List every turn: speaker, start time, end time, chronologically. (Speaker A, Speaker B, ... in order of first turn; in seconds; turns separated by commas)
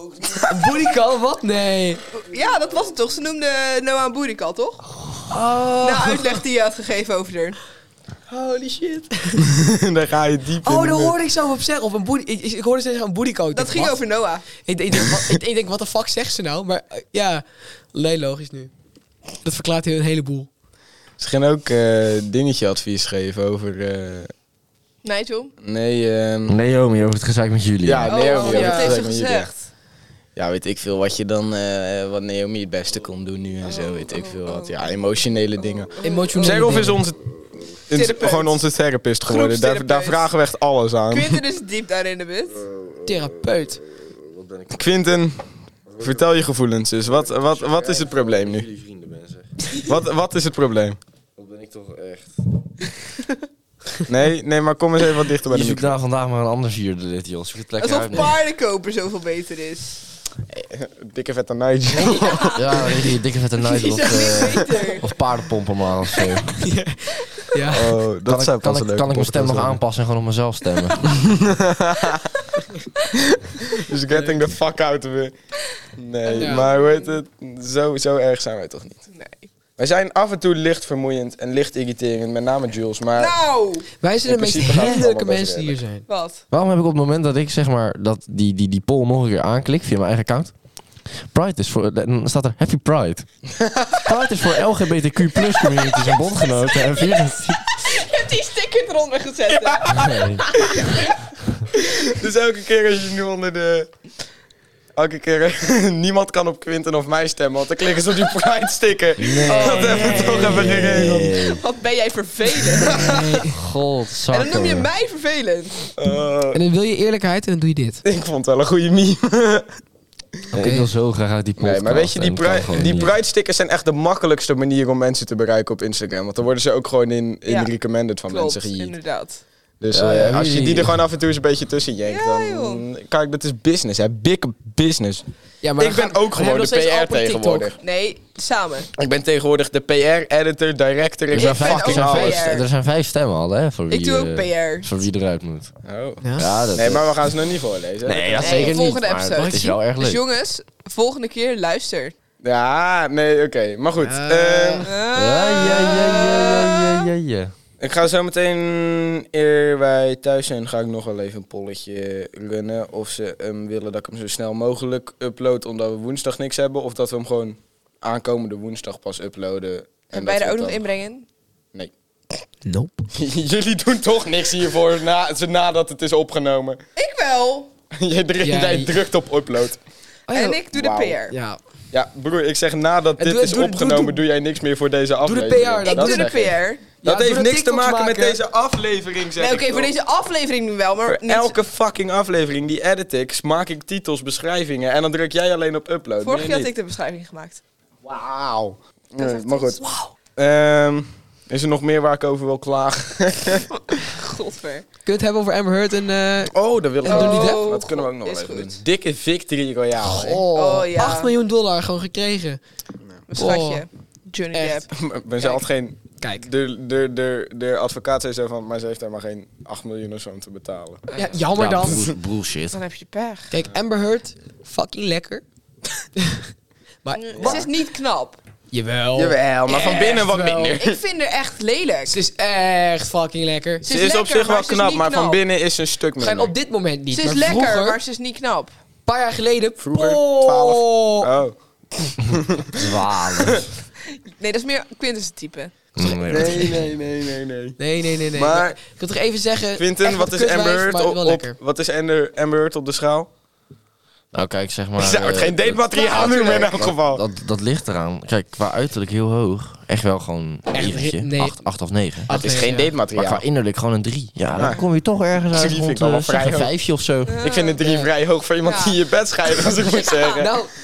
Speaker A: 0.2-0.7, Speaker B: 0.4-2.0, Speaker C: 2.1-4.8, Speaker B: 5.3-6.4, Speaker C: 5.8-7.6, Speaker B: 8.3-9.5, Speaker A: 9.5-11.1, Speaker B: 10.6-18.7, Speaker C: 13.5-14.4, Speaker B: 19.4-20.5, Speaker A: 21.2-24.3, Speaker C: 25.0-25.5, Speaker A: 25.6-26.6, Speaker D: 26.5-28.3, Speaker A: 27.8-29.5, Speaker C: 28.1-29.6, Speaker B: 28.4-29.0, Speaker A: 30.4-41.4, Speaker C: 33.6-34.9, Speaker C: 35.9-36.9, Speaker B: 36.0-37.0, Speaker C: 37.9-38.6, Speaker C: 39.2-40.3, Speaker C: 41.1-42.6, Speaker D: 42.5-44.9, Speaker B: 43.0-43.8, Speaker A: 44.7-45.4, Speaker D: 45.9-46.2, Speaker A: 46.0-48.6, Speaker D: 47.0-49.6, Speaker A: 49.8-51.0, Speaker D: 51.4-52.4, Speaker A: 54.1-55.9, Speaker D: 55.5-58.4, Speaker C: 57.8-60.0, Speaker A: 60.5-62.6, Speaker C: 61.9-63.0, Speaker D: 62.5-66.7, Speaker C: 63.6-65.1, Speaker B: 66.6-68.0, Speaker A: 67.7-69.8, Speaker D: 68.2-71.1, Speaker C: 70.9-71.1, Speaker A: 71.1-72.4, Speaker A: 73.1-75.3, Speaker A: 76.0-79.0, Speaker C: 76.2-77.2, Speaker B: 76.3-76.7, Speaker C: 79.1-79.5, Speaker A: 79.8-83.3, Speaker C: 83.1-83.9, Speaker B: 84.0-86.0, Speaker A: 84.2-85.8, Speaker C: 86.1-86.4, Speaker D: 86.5-90.5, Speaker D: 91.1-93.3, Speaker A: 93.7-94.1, Speaker D: 94.0-97.9, Speaker C: 95.6-101.0, Speaker A: 99.5-101.1, Speaker D: 100.0-100.4, Speaker A: 102.1-104.0, Speaker A: 105.0-111.4, Speaker D: 109.2-111.6, Speaker C: 109.5-113.1, Speaker A: 112.8-113.2, Speaker D: 112.9-114.9, Speaker B: 112.9-113.6, Speaker C: 114.3-115.9, Speaker A: 116.0-116.6, Speaker B: 116.5-118.0, Speaker A: 118.0-119.7, Speaker D: 120.5-123.2, Speaker B: 120.5-120.9, Speaker A: 121.6-128.9, Speaker C: 127.5-127.7, Speaker C: 128.3-129.4, Speaker A: 129.8-135.2, Speaker D: 129.9-131.0, Speaker C: 132.0-132.8, Speaker B: 135.6-137.7, Speaker A: 135.8-137.8, Speaker C: 137.8-138.9, Speaker A: 139.0-142.5, Speaker D: 141.3-145.7, Speaker C: 141.3-142.7, Speaker C: 143.9-144.9, Speaker A: 145.8-146.2, Speaker B: 146.2-146.7, Speaker D: 146.4-147.2, Speaker A: 146.7-148.8, Speaker D: 148.0-150.2, Speaker C: 148.4-152.1, Speaker B: 149.3-149.7, Speaker A: 152.4-154.8, Speaker B: 154.0-154.9, Speaker C: 154.8-157.0, Speaker D: 155.1-157.5, Speaker A: 157.8-170.8, Speaker C: 170.1-171.2, Speaker B: 172.6-173.1, Speaker A: 173.1-176.8, Speaker C: 176.9-177.7, Speaker A: 177.9-179.8, Speaker B: 178.4-178.9, Speaker B: 180.3-180.6, Speaker C: 180.3-181.3, Speaker A: 180.7-181.2, Speaker B: 181.3-181.6, Speaker A: 181.9-189.9, Speaker B: 183.2-184.2, Speaker B: 185.2-188.4, Speaker C: 185.8-186.8, Speaker C: 189.4-191.6, Speaker A: 191.1-196.7, Speaker C: 196.2-197.6, Speaker A: 198.0-199.8, Speaker C: 199.2-200.1, Speaker A: 200.3-203.7, Speaker C: 203.9-204.8, Speaker B: 205.0-207.7, Speaker A: 206.5-210.4, Speaker C: 207.0-208.8, Speaker B: 210.0-212.6, Speaker C: 210.5-211.3, Speaker C: 213.3-214.9, Speaker B: 213.3-213.8, Speaker B: 214.5-214.8, Speaker A: 214.9-221.1, Speaker C: 215.4-215.6, Speaker B: 216.2-216.4, Speaker C: 221.1-221.3, Speaker B: 221.1-222.1, Speaker D: 221.5-222.8, Speaker A: 221.8-222.1, Speaker C: 222.7-223.5, Speaker B: 223.5-225.4, Speaker B: 226.2-226.5, Speaker B: 227.0-227.7, Speaker C: 227.1-228.4, Speaker A: 227.4-227.7, Speaker B: 228.7-230.8, Speaker A: 229.1-231.0, Speaker C: 229.7-232.1, Speaker B: 232.1-233.8, Speaker C: 233.8-235.4, Speaker A: 233.8-236.5, Speaker B: 236.2-238.0, Speaker C: 237.1-238.7, Speaker B: 239.1-241.3, Speaker A: 239.8-243.7, Speaker D: 242.7-243.7, Speaker C: 244.3-245.7, Speaker D: 245.9-246.8, Speaker A: 246.0-247.8, Speaker B: 246.0-246.8, Speaker B: 247.8-251.6, Speaker A: 248.3-248.8, Speaker A: 249.8-253.3, Speaker D: 254.3-262.3, Speaker A: 255.0-257.2, Speaker C: 255.9-256.6, Speaker B: 260.7-261.6, Speaker B: 262.2-262.9, Speaker A: 262.3-263.4, Speaker D: 263.1-267.4, Speaker A: 264.6-264.8, Speaker A: 265.5-266.7, Speaker C: 267.2-267.8, Speaker A: 267.4-270.5, Speaker B: 267.8-268.1, Speaker C: 268.6-269.0, Speaker C: 269.5-270.4, Speaker B: 270.4-270.7